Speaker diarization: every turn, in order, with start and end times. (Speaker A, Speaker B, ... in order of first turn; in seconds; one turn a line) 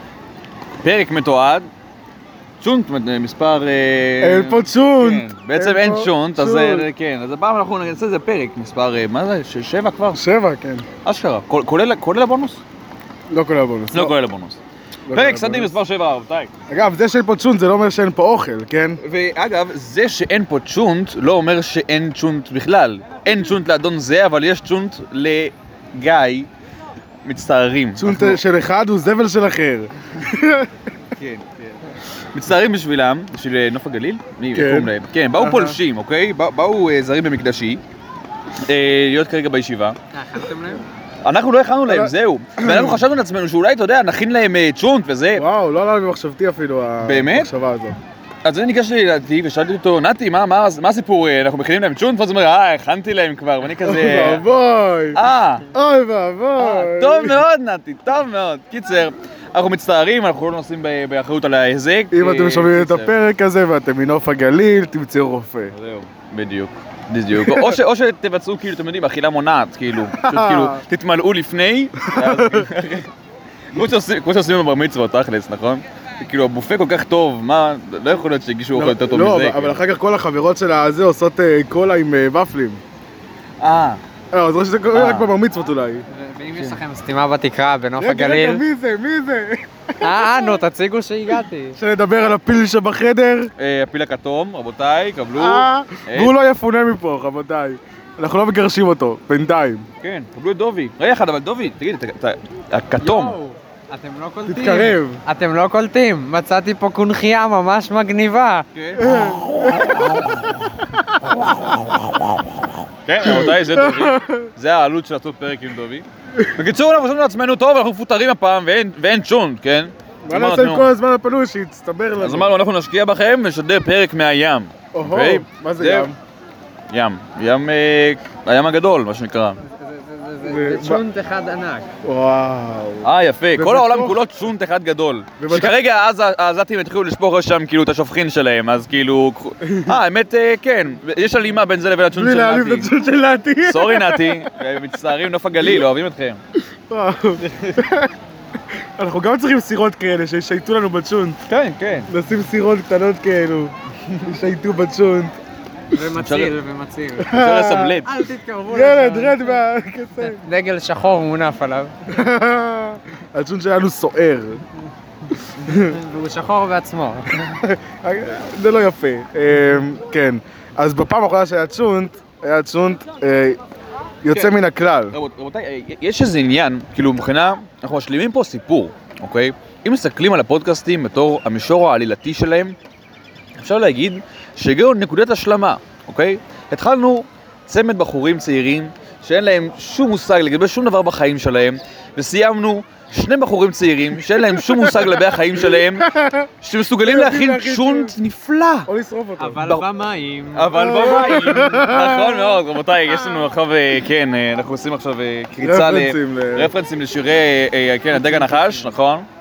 Speaker A: 0.8-1.7
Speaker A: 2.6-10.2
Speaker B: 4.2-6.9
Speaker B: 10.1-10.8
Speaker A: 11.0-12.6
Speaker B: 13.3-14.1
Speaker A: 13.9-14.6
Speaker B: 15.1-15.7
Speaker A: 15.1-16.5
Speaker B: 16.7-19.0
Speaker A: 19.0-26.5
Speaker A: 27.2-28.4
Speaker B: 28.0-30.7
Speaker A: 31.1-37.8
Speaker B: 34.5-35.8
Speaker A: 38.7-40.0
Speaker C: 40.1-40.8
Speaker A: 41.2-45.4
Speaker B: 41.9-43.0
Speaker B: 45.4-48.0
Speaker A: 47.0-47.5
Speaker A: 48.4-54.4
Speaker B: 53.8-55.2
Speaker A: 55.1-55.6
Speaker B: 55.7-57.4
Speaker A: 56.6-63.1
Speaker B: 62.1-65.7
Speaker A: 65.7-73.1
Speaker B: 67.3-67.8
Speaker B: 70.1-70.8
Speaker B: 72.0-72.7
Speaker A: 73.7-79.8
Speaker B: 78.7-82.8
Speaker A: 83.6-84.0
Speaker B: 84.3-86.0
Speaker A: 84.9-85.3
Speaker C: 86.1-88.6
Speaker A: 86.5-86.8
Speaker B: 88.0-90.6
Speaker C: 90.0-91.8
Speaker B: 91.8-93.5
Speaker A: 93.6-96.3
Speaker B: 95.3-99.8
Speaker A: 100.0-103.4
Speaker C: 103.0-108.7
Speaker B: 104.5-105.2
Speaker A: 108.7-110.6
Speaker B: 109.0-112.7
Speaker A: 111.5-111.8
Speaker A: 113.0-120.9
Speaker B: 113.2-114.5
Speaker B: 120.2-122.5
Speaker A: 122.2-126.1
Speaker B: 124.9-126.2
Speaker A: 126.9-129.6
Speaker C: 129.6-131.9
Speaker B: 130.4-131.0
Speaker B: 132.0-134.2
Speaker A: 133.0-142.9
Speaker B: 135.4-135.8
Speaker B: 139.6-140.0
Speaker B: 142.1-144.5
Speaker A: 143.6-146.4
Speaker B: 146.9-148.1
Speaker A: 147.4-147.8
Speaker B: 149.0-151.4
Speaker A: 151.5-152.1
Speaker B: 152.1-155.3
Speaker C: 155.9-157.3
Speaker A: 156.1-156.6
Speaker B: 157.2-158.0
Speaker A: 157.3-158.1
Speaker C: 158.0-159.6
Speaker B: 158.7-160.4
Speaker C: 160.2-161.9
Speaker B: 162.1-164.6
Speaker B: 165.6-166.0
Speaker C: 165.7-167.6
Speaker B: 167.5-173.6
Speaker B: 174.2-175.2
Speaker A: 175.1-182.8
Speaker A: 183.6-196.1
Speaker B: 194.4-196.5
Speaker A: 196.6-198.9
Speaker B: 197.0-198.2
Speaker B: 198.9-199.6
Speaker C: 199.4-200.7
Speaker A: 200.5-209.3
Speaker B: 200.7-203.5
Speaker B: 205.6-206.7
Speaker C: 208.1-208.9